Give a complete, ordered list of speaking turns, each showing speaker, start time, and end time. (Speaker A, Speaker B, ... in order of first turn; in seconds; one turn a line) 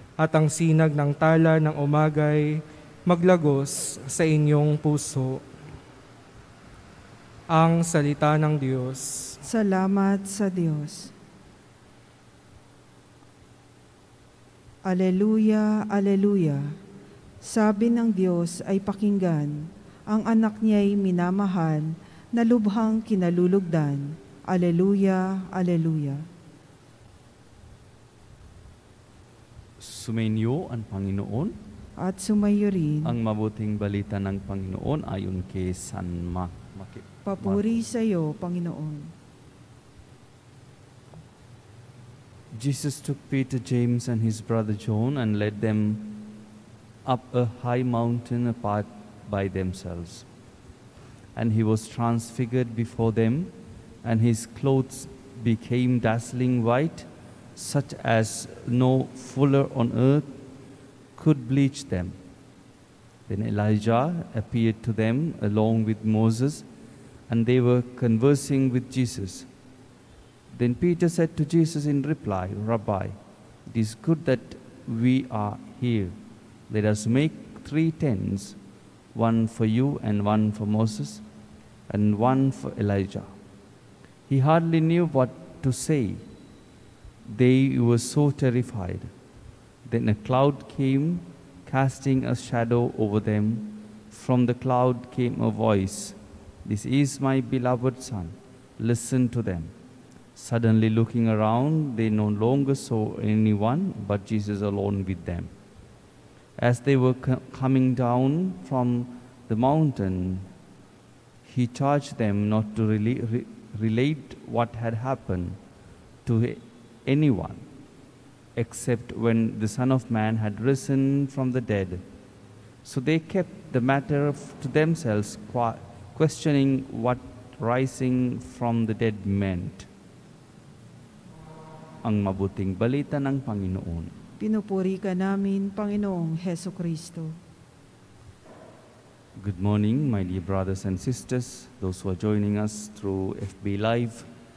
Speaker A: 0.2-5.4
Speaker A: 7.5-9.4
Speaker B: 9.4-11.1
Speaker B: 14.9-16.7
Speaker B: 17.4-26.2
Speaker C: 29.8-31.6
Speaker B: 32.0-33.2
Speaker C: 33.0-37.8
Speaker B: 37.3-39.1
Speaker C: 42.5-46.3
Speaker C: 47.1-50.3
Speaker C: 51.4-53.5
Speaker C: 54.0-60.3
Speaker C: 61.2-62.2
Speaker C: 63.3-66.7
Speaker C: 67.3-69.5
Speaker C: 70.5-73.2
Speaker C: 73.7-76.2
Speaker C: 76.7-78.6
Speaker C: 79.2-81.2
Speaker C: 81.9-83.3
Speaker C: 84.3-86.2
Speaker C: 87.3-89.1
Speaker C: 89.9-99.7
Speaker C: 100.4-105.5
Speaker C: 106.6-110.5
Speaker C: 111.5-115.6
Speaker C: 116.2-117.6
Speaker C: 118.6-122.0
Speaker C: 122.8-129.9
Speaker C: 132.0-134.2
Speaker B: 134.4-137.3
Speaker C: 139.4-144.3